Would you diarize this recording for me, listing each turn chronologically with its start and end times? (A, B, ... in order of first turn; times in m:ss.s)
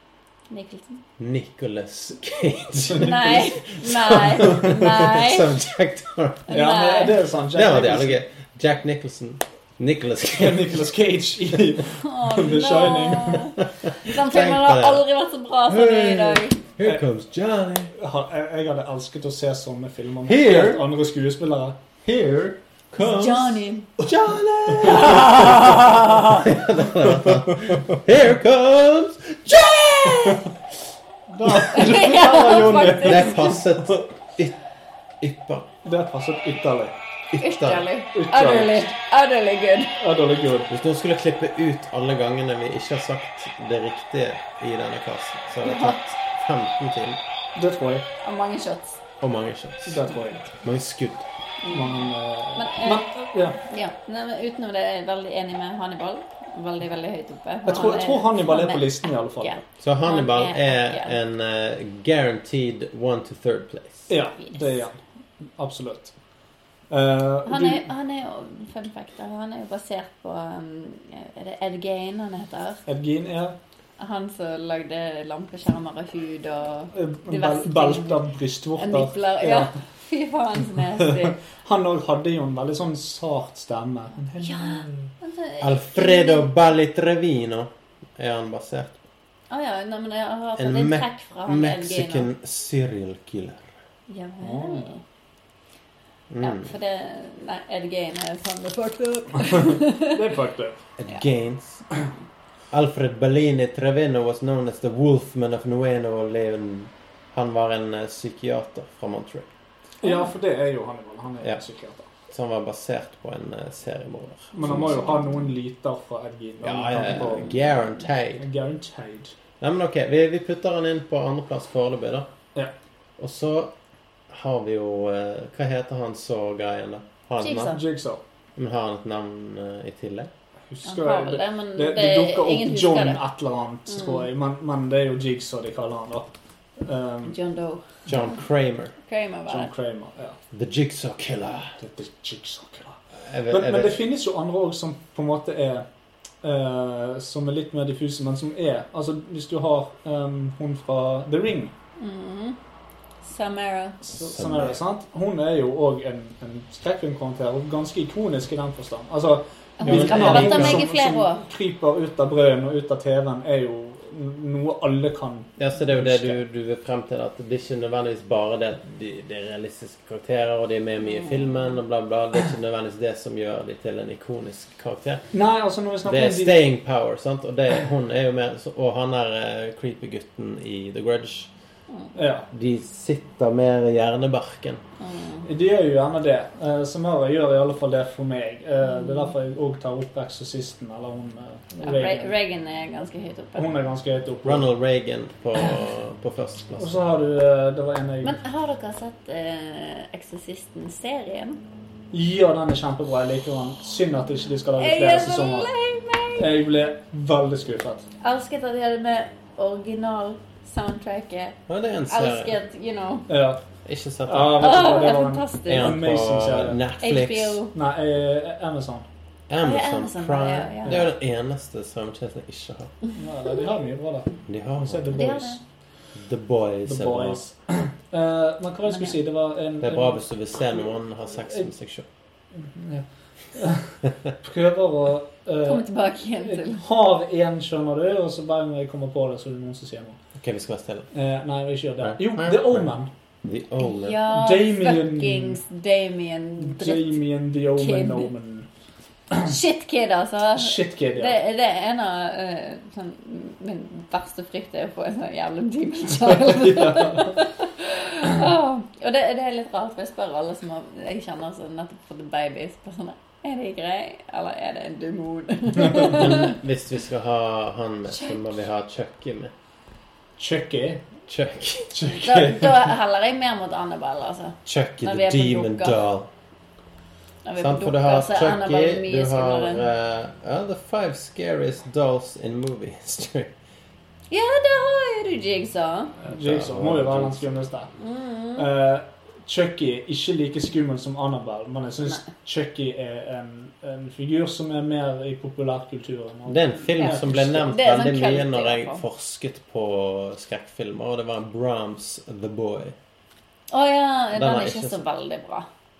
0:00.5-0:01.0 A
0:01.2-0:06.5 B
0:02.8-0:03.5 C
0:03.0-0:05.6 A
0:06.5-0:07.2 A
0:06.5-0:08.2 C
0:07.5-0:10.9 B
0:10.4-0:13.6 C
0:12.0-0:16.6 A
0:13.8-0:15.0 B
0:15.6-0:17.9 B
0:18.0-0:21.8 C
0:20.2-0:20.9 B
0:22.0-0:30.4 B
0:23.0-0:23.9 A
0:24.7-0:25.3 C
0:31.3-0:33.9 C
0:31.7-0:33.6 A
0:32.4-0:34.6 B
0:35.2-0:35.7 B
0:35.8-0:36.9 C
0:37.3-0:37.9 B
0:37.4-0:39.9 A
0:38.1-0:38.9 C
0:40.0-0:40.7 C
0:40.7-0:47.2 B
0:45.6-0:46.0 A
0:47.5-0:48.1 C
0:48.2-0:49.0 A
0:49.2-0:51.2 B
0:49.9-0:50.5 C
0:51.6-1:01.1 A
0:51.7-0:53.6 C
0:57.6-0:59.6 C
0:59.8-1:04.1 B
1:04.1-1:05.0 C
1:04.4-1:04.7 A
1:05.6-1:06.1 C
1:06.9-1:07.8 C
1:07.4-1:12.8 A
1:12.9-1:13.6 C
1:14.0-1:18.2 A
1:16.9-1:19.7 C
1:18.8-1:21.4 A
1:21.5-1:25.1 C
1:24.4-1:26.5 A
1:25.6-1:29.0 B
1:29.5-1:32.3 A
1:30.6-1:33.7 B
1:34.1-1:35.0 A
1:34.4-1:34.9 C
1:36.3-1:36.7 B
1:36.4-1:40.2 A
1:39.6-1:40.8 C
1:41.0-1:41.8 B
1:42.7-1:49.5 B
1:50.0-1:52.1 C
1:50.0-1:50.3 A
1:52.3-1:55.0 B
1:54.5-1:57.6 C
1:54.6-1:55.4 A
1:56.6-1:58.4 B
1:58.4-1:59.3 C
1:59.6-2:02.3 B
2:03.2-2:03.7 B
2:04.3-2:07.8 B
2:07.4-2:07.8 A
2:07.6-2:08.2 C
2:08.6-2:10.3 B
2:10.7-2:16.3 C
2:10.8-2:13.2 A
2:13.9-2:14.3 A
2:16.8-2:17.4 C
2:17.2-2:17.8 A
2:18.1-2:18.9 B
2:19.0-2:19.7 A
2:19.5-2:20.4 C
2:20.5-2:21.8 B
2:21.8-2:23.0 C
2:23.2-2:24.0 B
2:23.5-2:25.8 C
2:26.4-2:31.7 C
2:32.0-2:32.6 A
2:33.2-2:34.0 A
2:34.0-2:46.4 C
2:34.1-2:34.8 B
2:39.8-2:41.4 A
2:39.8-2:40.9 B
2:45.6-2:55.3 B
2:51.0-2:51.7 A
2:55.3-2:56.6 C
2:56.0-3:01.5 B
3:02.1-3:02.5 C
3:02.5-3:04.8 B
3:05.0-3:05.4 A
3:05.4-3:12.3 C
3:08.9-3:09.2 A
3:11.8-3:13.7 A
3:13.6-3:14.7 C
3:14.4-3:17.0 B
3:16.8-3:18.4 C
3:18.2-3:21.6 A
3:22.1-3:25.7 C
3:24.8-3:26.5 A
3:26.4-3:28.0 C
3:28.2-3:31.6 A
3:31.7-3:32.6 B
3:32.1-3:33.3 A
3:33.3-3:33.6 C
3:33.8-3:35.1 B
3:34.2-3:36.8 C
3:34.6-3:36.0 A
3:35.7-3:37.6 B
3:37.0-3:37.7 A
3:37.7-3:39.0 C
3:39.5-3:42.9 B
3:39.6-3:41.0 A
3:43.2-3:45.6 C
3:44.5-3:45.1 B
3:45.1-3:45.6 A
3:46.2-3:47.5 B
3:46.8-3:50.9 C
3:48.9-3:49.2 A
3:49.8-3:52.0 B
3:52.6-3:55.9 C
3:55.6-3:56.8 A
3:56.4-4:00.2 C
4:00.4-4:01.1 B
4:01.1-4:03.1 C
4:02.0-4:02.9 B
4:03.4-4:04.2 B
4:03.8-4:08.3 A
4:04.3-4:05.6 C
4:06.6-4:08.7 C
4:09.4-4:26.6 A
4:10.5-4:11.4 C
4:16.2-4:17.4 C
4:26.0-4:29.5 B
4:28.1-4:28.4 A
4:30.4-4:31.0 C
4:31.3-4:32.0 B
4:31.9-4:32.9 C
4:32.2-4:36.0 A
4:34.6-4:36.3 B
4:37.4-4:39.8 A
4:37.6-4:43.5 B
4:44.3-4:46.1 A
4:46.2-4:47.9 C
4:46.3-4:47.5 B
4:48.0-4:48.7 A
4:48.6-4:57.7 C
4:56.4-5:03.0 B
4:56.9-4:59.0 A
5:03.7-5:05.6 A
5:04.3-5:05.0 B